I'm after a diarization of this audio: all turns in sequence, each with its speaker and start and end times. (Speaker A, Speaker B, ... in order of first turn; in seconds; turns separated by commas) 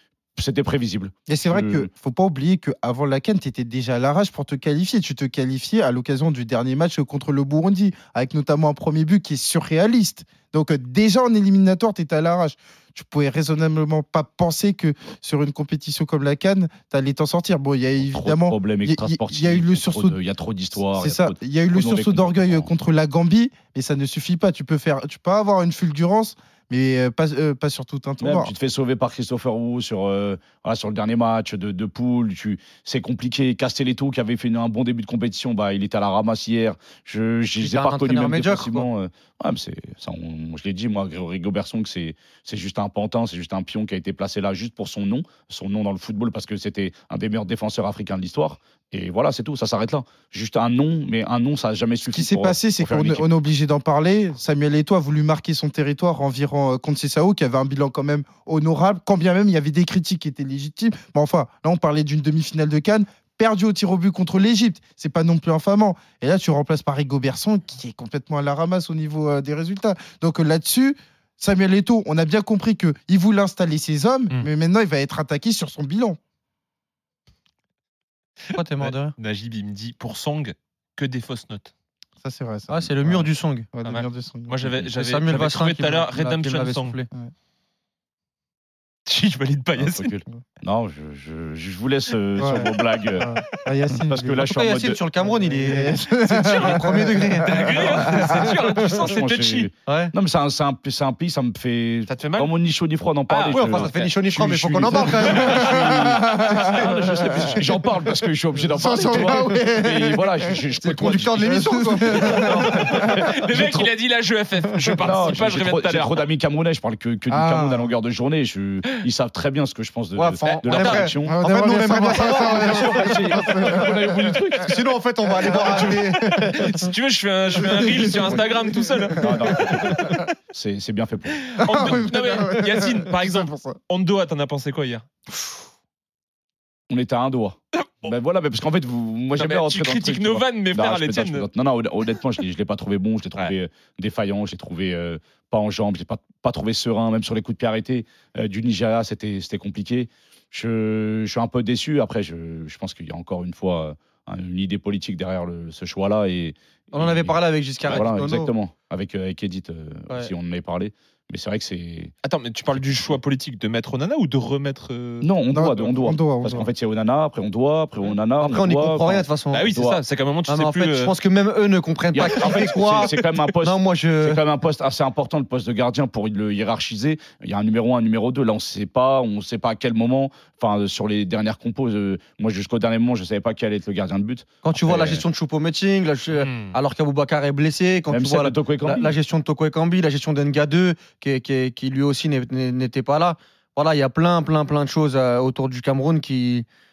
Speaker A: 0.3-1.9, Speaker B: 1.3-20.2, Speaker A: 18.0-22.7, Speaker B: 20.8-28.5, Speaker A: 28.2-53.3, Speaker C: 37.6-38.9, Speaker B: 52.1-76.2, Speaker C: 78.5-79.1, Speaker D: 78.5-81.7, Speaker B: 82.2-84.6, Speaker C: 82.7-83.7, Speaker D: 83.8-87.0, Speaker C: 84.9-87.1, Speaker D: 89.1-90.1, Speaker A: 89.8-93.3, Speaker B: 92.4-94.5, Speaker A: 93.9-95.0, Speaker C: 94.4-98.4, Speaker B: 95.2-98.4, Speaker D: 96.4-96.8, Speaker D: 97.4-99.7, Speaker A: 98.4-111.8, Speaker C: 99.9-100.1, Speaker D: 102.1-102.5, Speaker D: 103.3-104.1, Speaker C: 103.5-106.2, Speaker D: 105.3-105.8, Speaker B: 105.7-106.7, Speaker B: 108.6-110.6, Speaker C: 110.8-112.5, Speaker B: 111.4-113.0, Speaker D: 112.2-116.1, Speaker A: 112.3-113.9, Speaker A: 114.9-121.4, Speaker B: 117.3-117.9, Speaker C: 120.2-123.7, Speaker D: 120.4-121.1, Speaker B: 121.2-124.3, Speaker A: 122.1-124.8, Speaker D: 123.8-124.1, Speaker C: 124.5-126.7, Speaker B: 125.4-126.8, Speaker D: 126.5-130.2, Speaker B: 127.5-130.3, Speaker A: 128.0-128.4, Speaker A: 129.2-132.1, Speaker D: 131.6-135.0, Speaker B: 131.6-133.8, Speaker A: 136.9-162.1, Speaker D: 137.8-138.1, Speaker D: 139.3-141.5, Speaker C: 156.9-158.5, Speaker D: 162.2-165.3, Speaker A: 162.7-163.2, Speaker A: 165.2-170.0, Speaker B: 165.5-166.7, Speaker C: 168.4-169.7, Speaker D: 169.5-171.1, Speaker C: 170.5-174.4, Speaker A: 172.1-185.2, Speaker D: 172.4-173.4, Speaker C: 184.6-196.6, Speaker D: 186.3-186.8, Speaker A: 188.1-189.1